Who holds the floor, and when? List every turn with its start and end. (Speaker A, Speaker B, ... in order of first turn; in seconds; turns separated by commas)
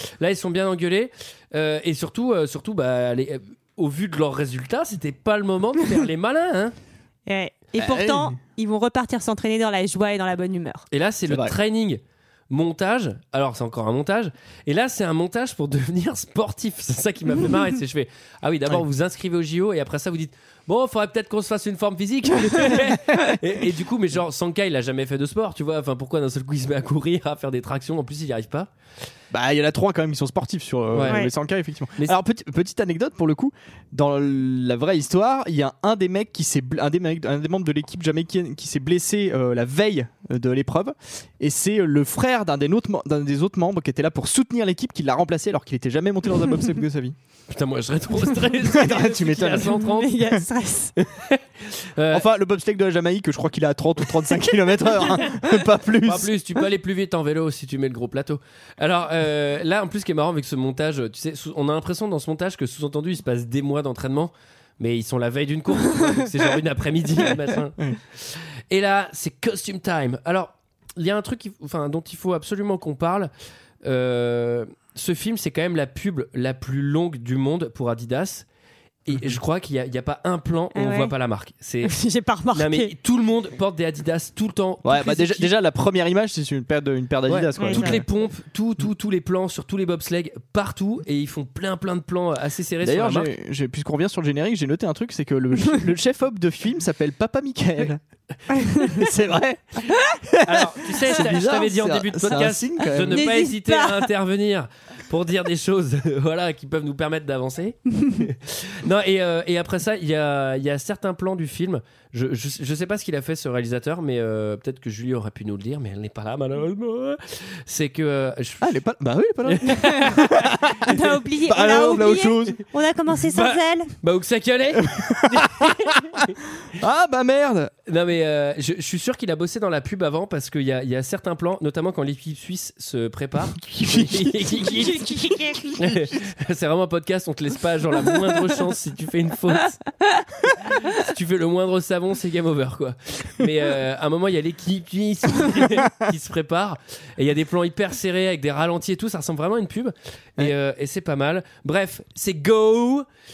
Speaker A: 0.2-6.8, Speaker B: 7.3-10.8, Speaker C: 7.8-8.4, Speaker A: 10.9-12.0, Speaker C: 11.3-11.5, Speaker A: 12.5-28.7, Speaker C: 29.3-47.2, Speaker A: 30.9-31.3, Speaker A: 47.5-50.1, Speaker C: 48.5-50.4, Speaker B: 49.7-50.9, Speaker A: 51.0-52.3, Speaker C: 52.1-56.3, Speaker A: 56.0-73.3, Speaker A: 73.8-78.5, Speaker A: 79.1-81.9, Speaker B: 80.8-81.1, Speaker B: 81.8-82.9, Speaker A: 82.5-85.5, Speaker C: 84.8-88.1, Speaker A: 87.3-93.3, Speaker B: 87.6-88.0, Speaker C: 92.8-98.0, Speaker B: 98.6-98.9, Speaker C: 98.8-103.3, Speaker A: 100.4-118.7, Speaker B: 103.1-104.1, Speaker C: 118.6-122.6, Speaker A: 119.5-120.6, Speaker B: 120.9-123.9, Speaker A: 123.3-126.4, Speaker C: 124.8-125.9, Speaker C: 126.8-127.7, Speaker A: 127.9-135.1, Speaker C: 133.7-135.1, Speaker B: 134.7-135.8, Speaker C: 135.6-136.1, Speaker A: 135.8-139.8, Speaker A: 140.6-153.1